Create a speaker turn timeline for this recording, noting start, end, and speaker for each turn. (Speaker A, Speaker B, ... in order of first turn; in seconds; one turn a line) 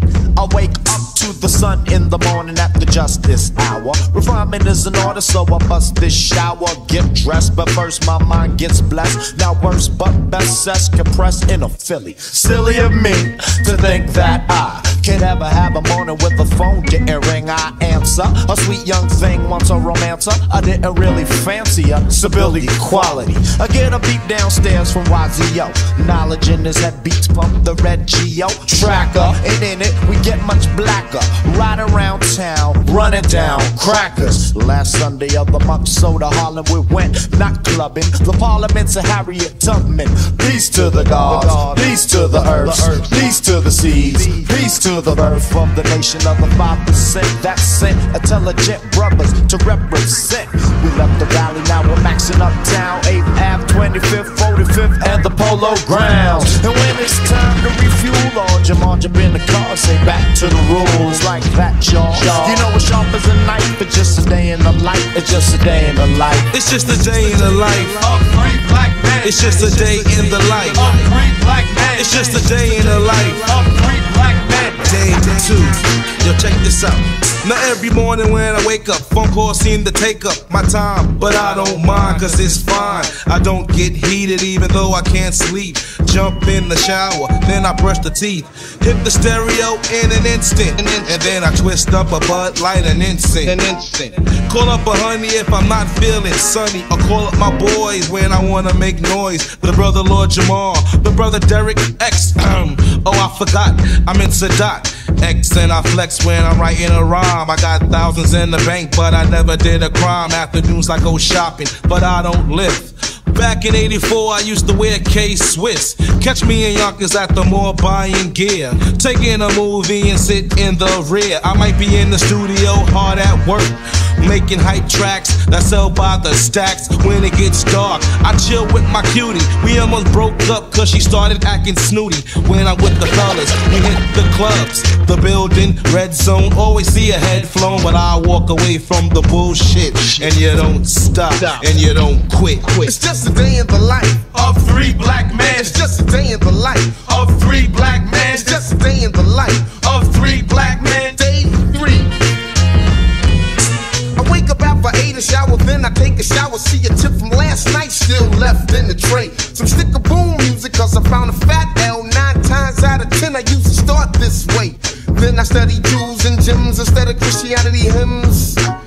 Speaker A: 0.3-66.5
Speaker B: 66.5-68.5
Speaker C: 68.2-74.5
Speaker B: 69.2-142.9
Speaker C: 93.6-93.9
Speaker D: 142.8-144.4
Speaker B: 144.4-145.5
Speaker D: 145.4-147.2
Speaker B: 147.1-148.4
Speaker D: 148.2-152.1
Speaker B: 150.3-150.9
Speaker D: 154.2-168.6